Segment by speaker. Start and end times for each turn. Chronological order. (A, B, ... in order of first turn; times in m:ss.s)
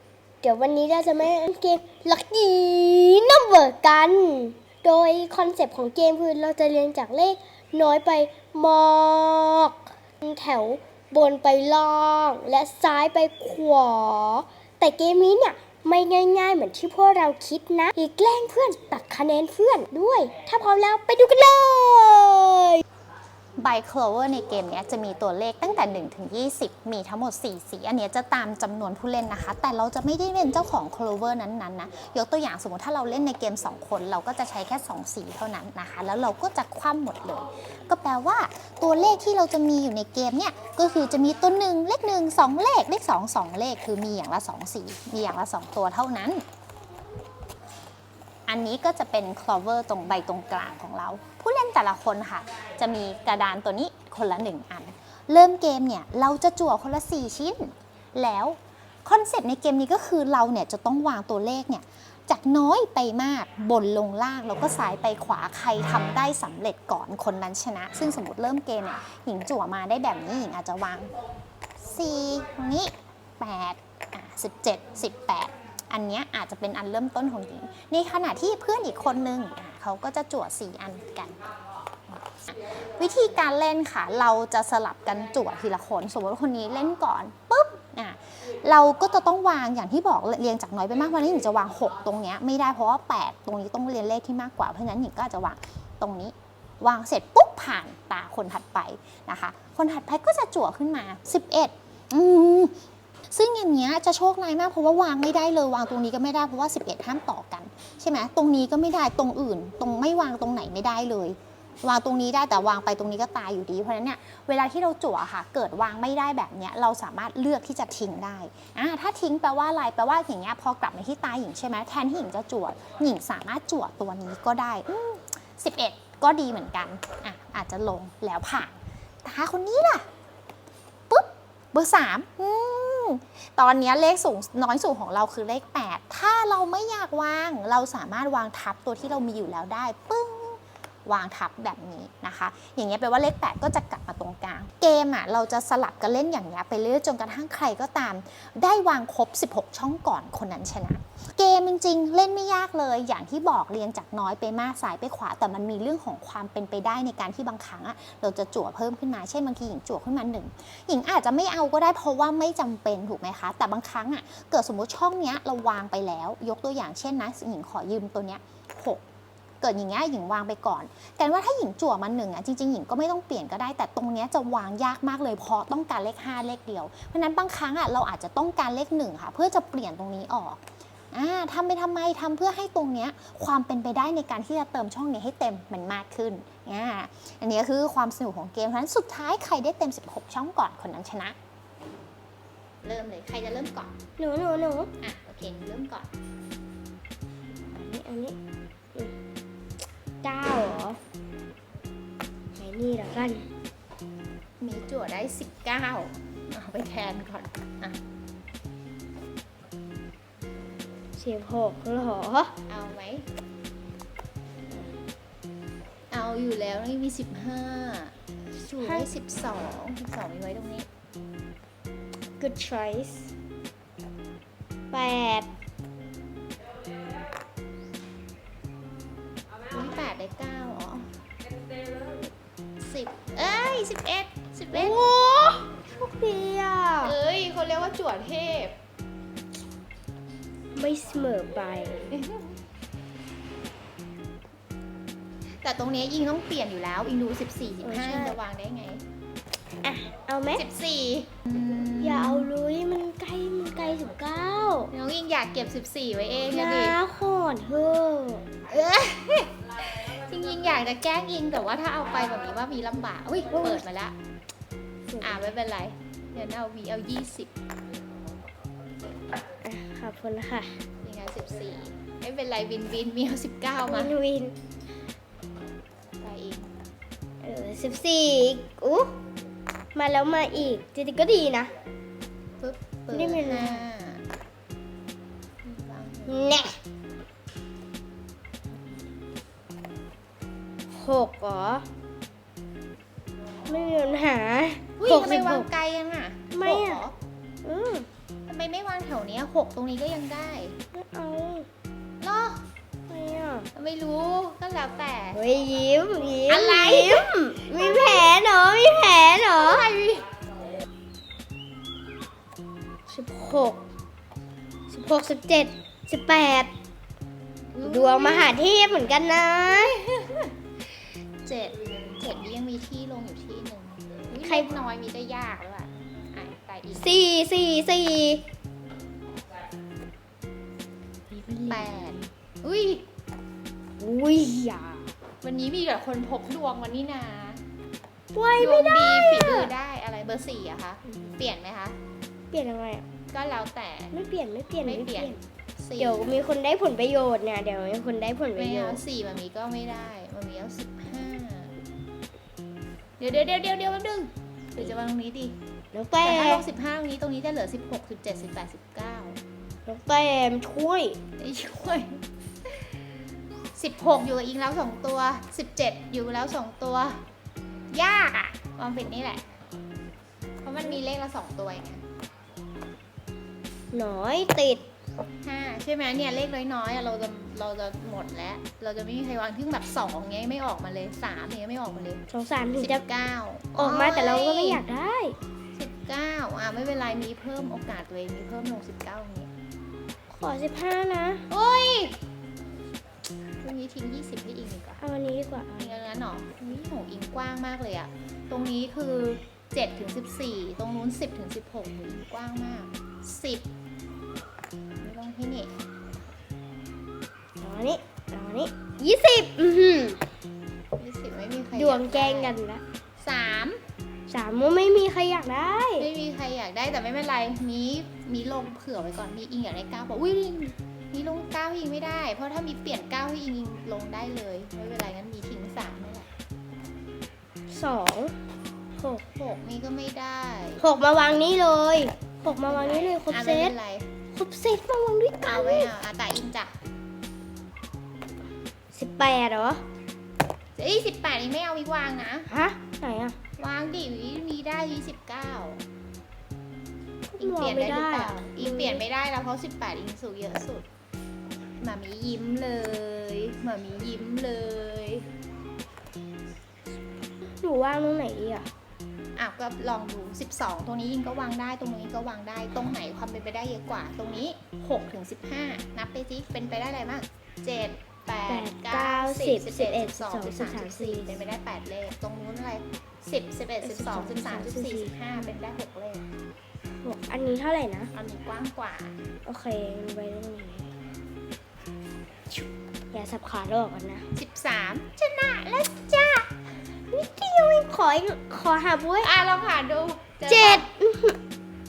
0:00.4-0:22.8 A
0:23.6-0:46.4 B
0:48.5-1:11.1 B
1:11.8-1:21.4 B
1:22.1-1:42.7 B
1:43.3-2:10.0 B
2:11.1-2:49.0 B
2:49.6-3:00.6 B
3:01.1-3:11.4 B
3:12.8-3:14.0 B
3:14.2-3:14.9 A
3:15.0-3:16.1 B
3:17.6-3:18.4 A
3:20.2-3:21.0 A
3:22.6-3:23.4 A
3:24.6-3:28.0 B
3:31.2-3:32.5 A
3:32.7-3:33.3 B
3:36.1-3:38.2 B
3:38.6-3:39.1 A
3:38.7-3:40.9 B
3:42.4-3:43.3 A
3:44.9-3:45.5 A
3:49.7-3:51.1 B
3:52.8-3:55.1 B
3:54.7-3:57.1 A
3:57.0-3:58.7 B
4:00.7-4:02.1 A
4:02.1-4:02.5 B
4:05.6-4:09.0 B
4:07.8-4:08.4 A
4:09.8-4:10.6 A
4:10.5-4:12.5 B
4:12.0-4:14.9 A
4:14.9-4:17.0 B
4:16.5-4:18.5 A
4:18.7-4:24.1 B
4:23.5-4:23.8 A
4:25.1-4:25.5 A
4:25.2-4:27.5 B
4:29.6-4:30.8 A
4:31.0-4:34.1 B
4:33.8-4:34.5 A
4:36.2-4:36.7 B
4:37.4-4:39.2 A
4:39.9-4:41.7 A
4:42.6-4:44.2 B
4:43.1-4:43.8 A
4:45.6-4:46.6 B
4:46.3-4:46.8 A
4:50.9-4:51.8 A
4:53.7-4:55.7 A
4:55.0-4:57.1 B
4:56.5-4:57.0 A
4:57.6-4:58.1 A
4:58.5-5:00.8 B
5:00.9-5:01.7 A
5:02.2-5:02.6 B
5:03.1-5:03.7 A
5:03.7-5:05.4 B
5:05.3-5:09.8 A
5:06.5-5:08.3 B
5:09.5-5:10.2 B
5:13.1-5:13.8 A
5:14.9-5:16.7 A
5:17.7-5:18.6 B
5:17.8-5:20.0 A
5:19.7-5:20.5 B
5:21.4-5:27.2 B
5:24.4-5:24.7 A
5:26.9-5:28.4 A
5:31.3-5:32.3 A
5:31.7-5:33.0 B
5:34.0-5:35.1 A
5:35.4-5:37.6 B
5:38.3-5:39.7 A
5:38.6-5:42.0 B
5:42.5-5:43.0 A
5:43.3-5:44.1 B
5:44.1-5:45.4 A
5:44.8-5:46.4 B
5:46.0-5:49.0 A
5:48.6-5:51.7 B
5:53.2-5:55.6 B
5:55.9-5:56.6 A
5:56.2-5:59.4 B
5:59.9-6:01.2 A
6:01.4-6:02.2 B
6:03.7-6:07.2 B
6:07.9-6:09.4 B
6:10.6-6:12.0 B
6:13.9-6:14.8 A
6:15.4-6:22.2 B
6:22.3-6:23.0 A
6:22.8-6:24.8 B
6:23.8-6:25.3 A
6:25.7-6:29.5 B
6:30.3-6:31.4 A
6:31.5-6:32.2 B
6:33.6-6:35.0 B
6:35.0-6:36.0 A
6:35.8-6:43.6 B
6:45.0-6:45.7 B
6:47.6-6:50.2 A
6:51.0-6:52.6 B
6:51.7-6:52.8 A
6:53.2-6:53.8 B
6:54.3-6:56.1 A
6:56.0-7:06.3 B
7:07.7-7:08.3 A
7:09.0-7:09.2 A
7:09.3-7:10.8 B
7:10.8-7:13.7 A
7:12.6-7:14.1 B
7:14.3-7:15.9 A
7:15.4-7:16.8 B
7:18.9-7:19.8 A
7:20.8-7:22.5 B
7:22.5-7:23.4 A
7:23.6-7:25.8 B
7:27.3-7:29.0 A
7:27.4-7:30.8 B
7:31.8-7:35.3 B
7:37.4-7:38.7 A
7:39.4-7:56.3 B
7:48.5-7:51.4 A
7:53.8-7:55.4 A
7:57.0-7:58.1 A
7:58.1-7:59.2 B
7:59.4-8:00.9 A
8:02.5-8:04.2 A
8:04.4-8:06.5 B
8:07.1-8:09.3 A
8:09.2-8:10.8 B
8:10.5-8:11.4 A